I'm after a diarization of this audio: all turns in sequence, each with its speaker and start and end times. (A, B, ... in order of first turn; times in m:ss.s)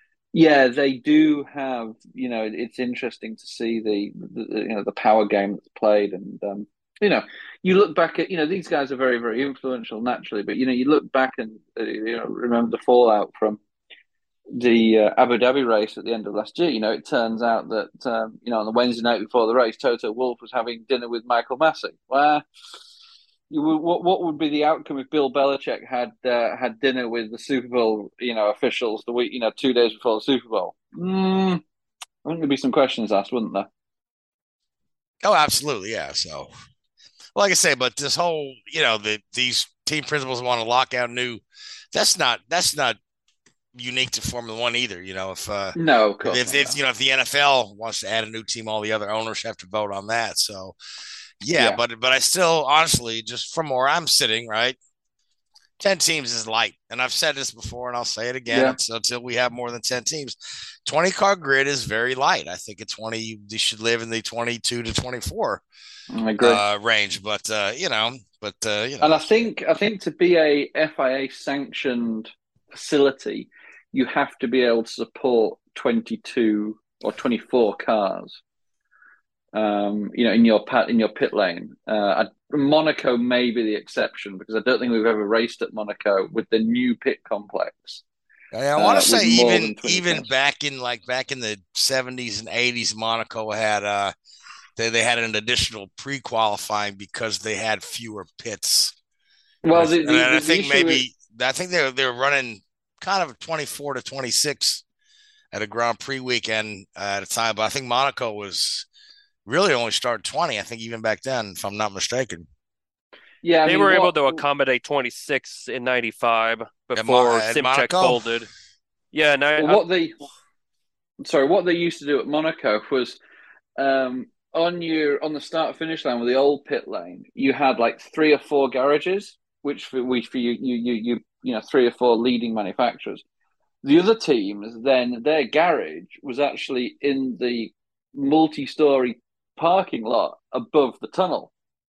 0:00.3-0:13.6 A
0:14.5-0:22.4 A
0:23.5-0:31.6 A
0:32.2-0:33.7 A
0:35.2-0:36.5 B
0:37.4-0:43.0 B
0:43.7-0:50.8 B
0:45.8-0:46.8 A
0:51.4-0:54.8 B
0:51.6-0:51.8 A
0:55.8-1:05.6 B
0:58.5-0:58.8 A
1:06.1-1:06.6 A
1:06.4-1:09.4 B
1:09.0-1:18.4 A
1:19.5-1:28.0 A
1:28.5-1:34.1 B
1:28.8-1:30.3 A
1:34.8-1:38.9 B
1:39.6-1:41.0 A
1:39.7-1:44.8 B
1:45.5-1:48.9 B
1:49.5-1:52.5 B
1:53.4-1:54.4 A
1:53.7-1:58.5 C
1:57.0-1:58.2 B
1:59.1-1:59.8 C
1:59.6-2:00.1 A
2:01.2-2:03.2 A
2:03.8-2:13.2 A
2:13.8-2:21.5 A